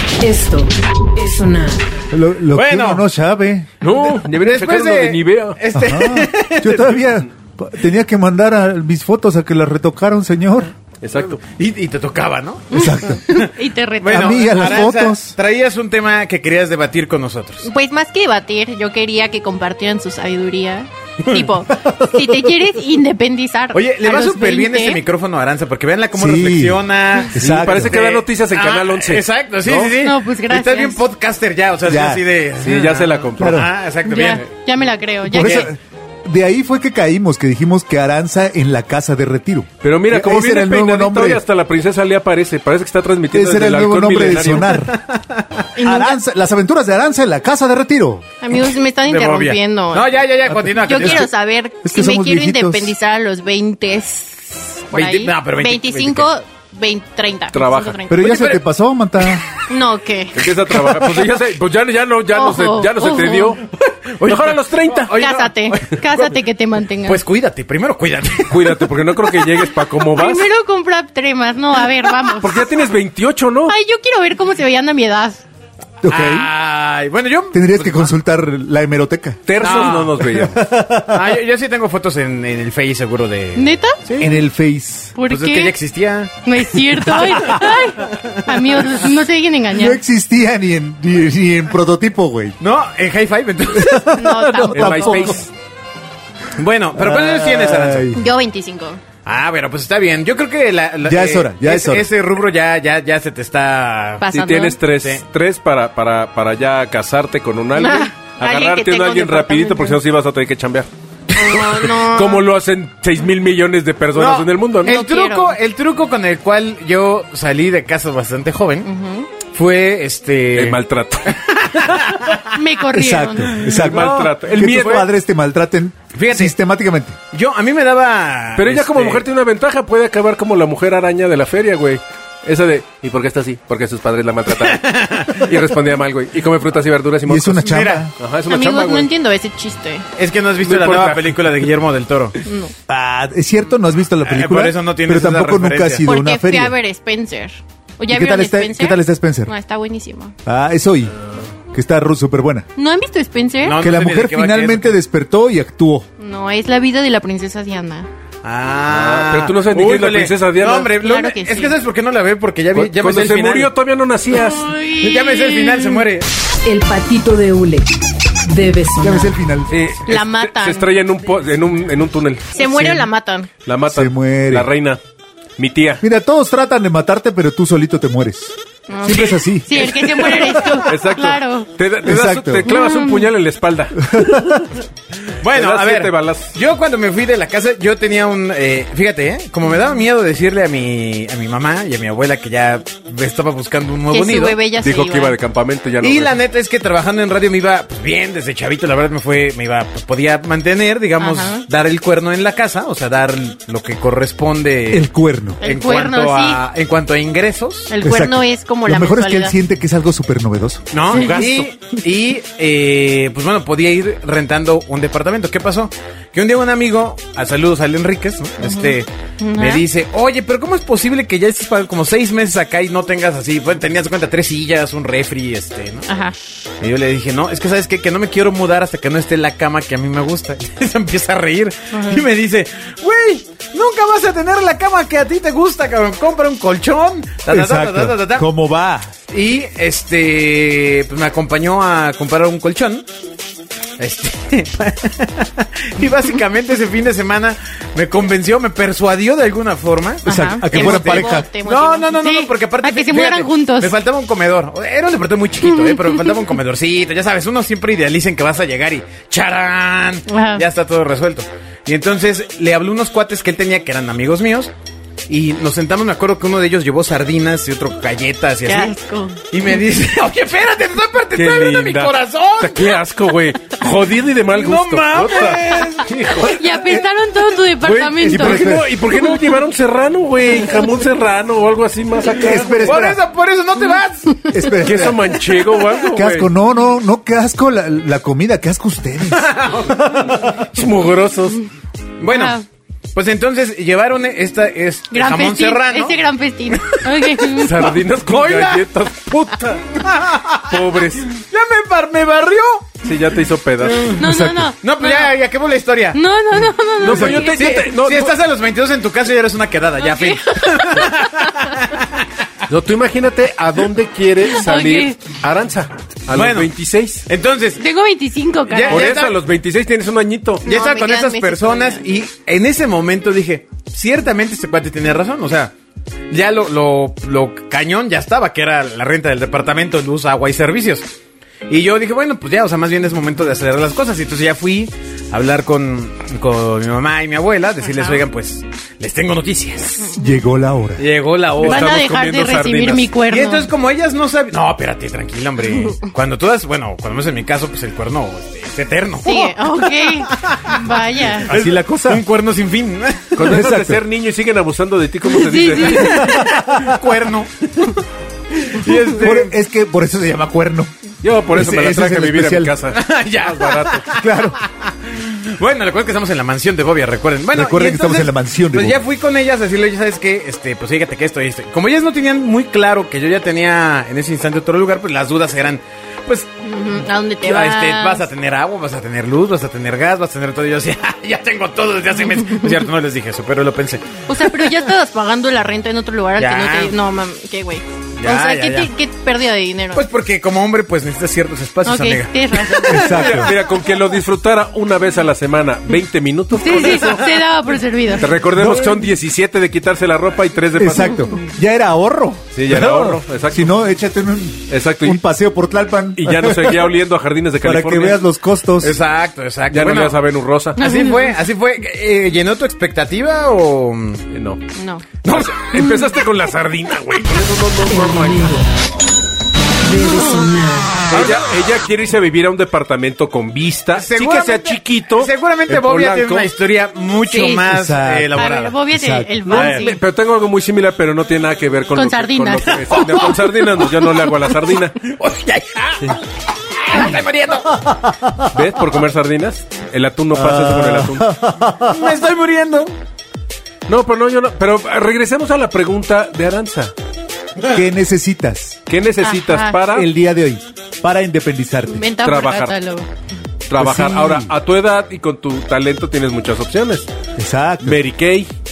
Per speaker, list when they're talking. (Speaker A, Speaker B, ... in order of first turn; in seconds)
Speaker A: 0.2-1.9, 166.6-167.9, 168.5-169.3, 417.9-418.7, 419.8-421.1
Speaker B: 2.1-3.7, 5.7-10.7, 12.7-13.2, 14.1-15.3, 26.1-26.8, 27.3-28.0, 29.6-30.0, 31.8-32.2, 33.4-33.7, 35.3-41.4, 43.3-45.0, 45.8-48.3, 50.5-51.2, 51.8-52.9, 58.1-59.4, 60.8-61.0, 76.0-76.5, 77.5-81.4, 84.2-85.2, 89.7-92.6, 93.7-95.5, 96.9-98.2, 101.0-102.1, 122.9-127.2, 137.3-138.1, 142.9-146.8, 148.1-149.5, 150.5-151.2, 151.7-152.7, 153.8-156.1, 169.0-169.7, 172.7-173.1, 173.9-174.7, 176.0-180.0, 182.0-182.7, 184.0-184.7, 204.9-205.6, 208.0-210.9, 237.5-239.1, 250.2-251.5, 276.6-277.1, 277.8-279.0, 282.4-283.2, 284.5-285.3, 286.1-289.5, 304.2-304.7, 340.2-341.1, 351.5-352.2, 353.4-354.0, 356.3-357.0, 359.1-360.9, 361.5-362.7, 364.2-364.6, 367.5-369.0, 392.9-393.6, 398.5-399.0, 400.8-406.9, 407.6-409.0, 427.7-428.4, 428.9-429.4, 437.9-438.5, 440.3-442.1, 447.7-448.8, 449.9-452.1, 453.8-454.5, 457.4-458.0
Speaker C: 2.5-3.0, 4.4-7.0, 11.2-17.7, 21.2-22.2, 23.7-34.5, 35.4-35.7, 44.9-45.6, 49.0-51.3, 54.9-56.3, 58.2-58.6, 63.6-66.3, 67.0-68.9, 76.1-78.1, 79.6-80.1, 81.1-84.4, 85.2-86.4, 86.9-89.0, 92.6-94.2, 96.5-98.2, 99.2-104.2, 114.1-118.9, 119.5-122.5, 123.7-124.3, 126.1-126.5, 127.3-129.2, 134.5-135.5, 137.6-138.1, 140.2-142.4, 144.2-146.1, 153.6-155.0, 158.4-163.7, 165.0-166.3, 179.8-180.9, 185.4-194.6, 196.0-205.1, 205.6-207.9, 210.9-226.1, 226.8-238.5, 239.3-243.1, 244.0-264.7, 265.3-268.9, 269.5-273.0, 274.5-276.1, 282.7-284.7, 289.3-290.3, 292.2-292.6, 293.1-296.2, 296.8-298.9, 300.0-303.1, 303.8-304.2, 304.8-306.2, 307.0-312.2, 316.3-316.7, 317.3-317.8, 318.7-319.4, 320.6-325.7, 326.3-331.1, 331.7-340.2, 341.0-341.9, 343.3-353.4, 355.9-358.0, 358.5-359.5, 362.9-376.5, 377.4-384.8, 386.4-386.9, 388.2-388.9, 389.9-393.6, 408.8-410.2, 410.8-414.2, 415.2-415.6, 421.1-421.5, 423.9-428.8, 429.5-429.9, 432.9-433.9, 435.0-436.2, 436.8-437.8, 441.8-442.9
Speaker D: 3.8-5.6, 11.0-11.4, 27.4-29.3, 32.6-33.6, 39.8-44.8, 57.5-58.2, 60.4-63.6, 64.2-65.2, 68.5-70.5, 72.4-73.7, 79.5-80.6, 94.7-95.5, 104.3-110.9, 111.4-115.0, 120.5-122.2, 123.6-125.1, 128.6-139.1, 140.6-141.4, 158.9-160.9, 162.7-164.7, 169.7-172.8, 173.7-175.0, 175.6-176.0, 180.8-184.4, 185.5-186.6, 194.8-196.4, 211.1-211.7, 271.3-276.6, 277.9-283.0, 284.7-286.5, 290.4-291.6, 297.6-300.0, 300.7-301.3, 303.0-304.1, 307.0-308.4, 312.7-317.2, 318.9-320.7, 341.6-343.1, 353.3-356.4, 361.2-364.1, 393.1-397.3, 398.1-401.3, 402.6-403.8, 404.7-405.2, 406.2-408.3, 409.7-410.8, 414.3-414.6, 415.2-418.6, 421.1-426.5, 429.5-435.0, 438.5-441.3, 443.9-446.9, 448.9-450.1, 452.2-452.8, 453.7-457.1, 457.8-458.5
Speaker E: 12.8-14.6, 17.6-25.0, 30.0-31.0, 34.0-35.7, 45.8-46.2, 48.4-50.2, 50.7-58.5, 59.7-60.4, 62.3-63.6, 65.2-67.2, 70.1-72.6, 73.7-75.4, 83.6-84.0, 85.2-85.8, 86.4-90.0, 94.1-95.4, 98.1-99.0, 104.2-104.8, 107.8-110.0, 111.3-112.5, 114.8-115.6, 118.8-119.3, 122.5-123.6, 138.5-140.1, 142.4-142.7, 146.0-150.3, 152.8-153.9, 156.2-158.1, 160.8-161.8, 164.3-166.1, 170.1-170.9, 172.5-173.5, 178.9-181.7, 182.7-183.3, 194.1-195.3, 201.2-201.6, 205.6-206.7, 207.9-209.6, 211.1-211.4, 218.6-219.8, 226.1-226.4, 231.9-232.2, 250.3-253.9, 260.3-260.6, 268.6-269.4, 276.4-278.7, 292.3-292.6, 295.1-297.9, 304.1-305.3, 306.1-307.7, 310.0-311.6, 314.5-315.2, 317.8-319.2, 320.6-322.0, 338.0-338.2, 341.6-343.7, 349.2-351.5, 355.3-356.4, 376.6-378.2, 384.3-390.1, 391.9-393.3, 396.6-398.4, 410.8-411.4, 414.8-415.1, 427.3-427.8, 428.3-430.0, 431.9-433.0, 449.2-449.8, 451.9-453.1